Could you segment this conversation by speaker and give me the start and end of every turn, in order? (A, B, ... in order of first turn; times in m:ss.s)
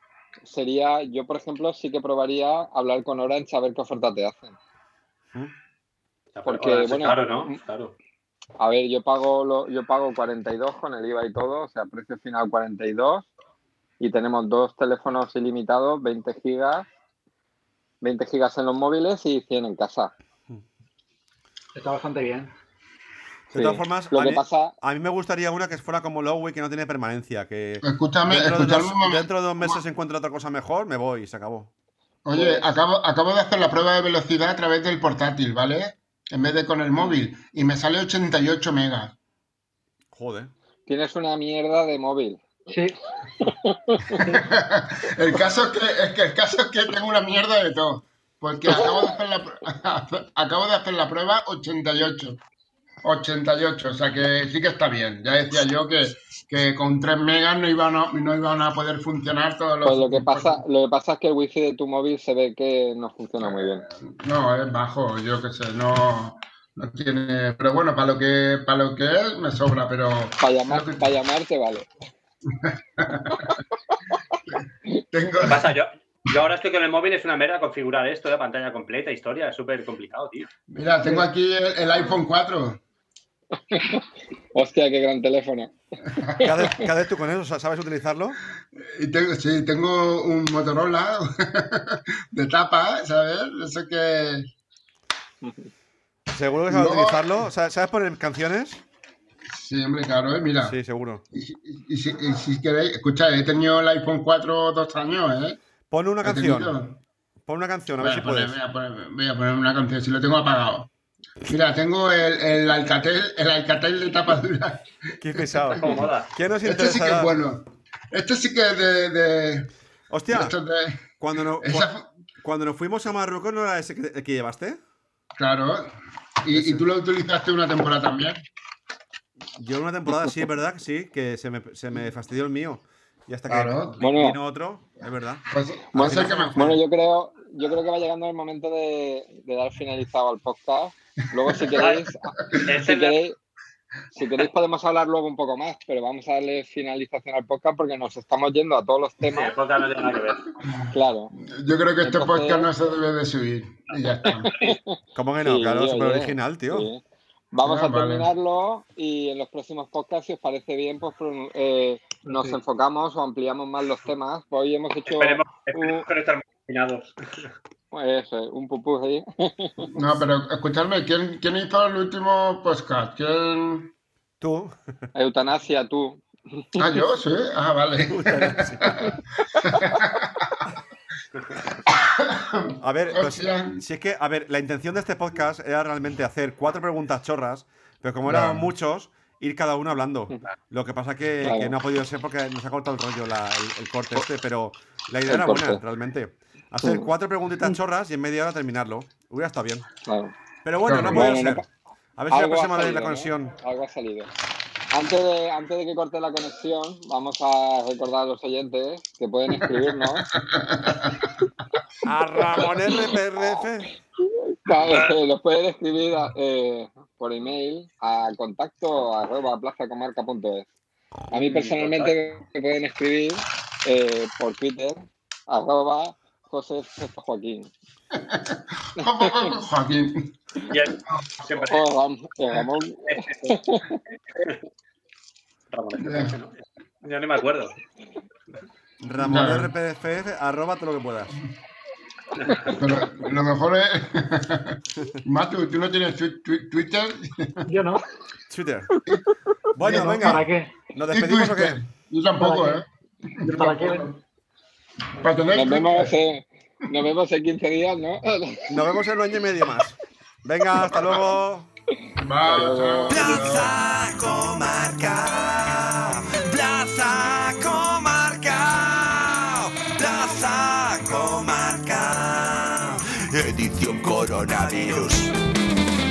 0:00.4-0:04.6 A
0:06.4-0:08.0 B
0:06.5-0:07.6 A
0:08.6-0:13.3 A
0:14.0-0:16.9 A
0:18.0-0:20.1 A
0:21.8-0:22.5 C
0:23.5-0:24.7 A
0:23.5-0:31.7 D
0:27.8-0:29.8 E
0:32.2-0:39.1 E
0:32.3-0:32.7 A
0:40.1-0:40.5 D
0:40.9-0:42.4 A
0:42.7-0:43.0 C
0:43.4-0:44.2 A
0:44.2-0:44.4 C
0:44.2-0:52.4 E
0:53.0-1:00.6 E
0:59.8-1:03.8 A
1:04.0-1:11.1 E
1:10.4-1:11.9 A
1:12.5-1:13.6 E
1:15.1-1:15.7 E
1:15.4-1:20.5 B
1:20.7-1:22.8 E
1:23.7-1:25.7 A
1:26.2-1:26.5 E
1:26.4-1:28.4 D
1:28.8-1:34.5 E
1:35.4-1:35.7 A
1:36.3-1:38.8 D
1:36.7-1:37.5 E
1:39.5-1:40.8 E
1:40.6-1:41.2 D
1:41.3-1:45.6 E
1:45.9-1:46.8 D
1:46.2-1:47.0 E
1:47.5-1:48.6 D
1:48.0-1:50.9 E
1:51.4-1:56.1 E
1:55.2-1:57.3 D
1:55.8-1:56.3 B
1:56.6-1:59.7 E
2:00.1-2:00.6 D
2:00.3-2:02.1 E
2:01.2-2:01.9 D
2:02.4-2:04.8 D
2:05.4-2:05.9 E
2:06.4-2:08.4 E
2:06.5-2:06.9 D
2:09.6-2:16.8 D
2:13.5-2:14.0 E
2:14.0-2:14.4 A
2:15.5-2:16.6 E
2:15.9-2:23.4 A
2:21.4-2:22.7 E
2:21.8-2:22.0 B
2:22.7-2:23.2 B
2:24.2-2:29.6 A
2:29.3-2:30.5 B
2:30.6-2:34.8 E
2:30.9-2:31.3 A
2:32.0-2:32.7 A
2:34.3-2:46.0 A
2:35.2-2:36.9 D
2:37.6-2:38.3 E
2:42.2-2:42.6 C
2:45.1-2:47.5 B
2:47.9-2:49.9 A
2:49.9-2:53.9 E
2:54.4-2:54.8 D
2:55.2-2:56.8 A
2:56.8-3:00.6 E
2:58.0-2:59.2 D
3:01.5-3:03.8 E
3:02.8-3:19.9 D
3:08.3-3:08.7 E
3:11.4-3:11.7 A
3:15.3-3:15.8 A
3:16.8-3:17.1 A
3:20.0-3:20.3 A
3:20.6-3:21.6 D
3:20.9-3:21.5 E
3:20.9-3:21.6 A
3:22.2-3:23.6 D
3:22.3-3:24.3 A
3:24.9-3:30.3 A
3:29.6-3:31.4 E
3:32.0-3:33.9 D
3:34.4-3:40.7 A
3:41.3-3:47.7 A
3:41.3-3:42.2 B
3:48.1-3:50.3 E
3:49.0-3:49.6 A
3:50.7-3:51.8 B
3:51.6-3:54.0 A
3:53.1-3:53.6 B
3:54.3-3:54.6 B
3:55.7-3:57.8 B
3:56.0-3:56.4 E
3:59.0-4:01.4 D
3:59.2-3:59.7 E
4:02.4-4:02.7 B
4:02.7-4:07.7 E
4:07.7-4:08.0 C
4:08.5-4:08.9 D
4:09.7-4:11.8 D
4:09.8-4:10.4 E
4:09.8-4:10.7 C
4:11.1-4:12.9 E
4:12.4-4:12.8 C
4:13.4-4:14.1 E
4:13.4-4:14.2 C
4:15.2-4:16.2 E
4:15.5-4:18.8 A
4:18.7-4:21.7 D
4:22.2-4:23.7 E
4:22.4-4:23.6 A
4:23.1-4:35.4 D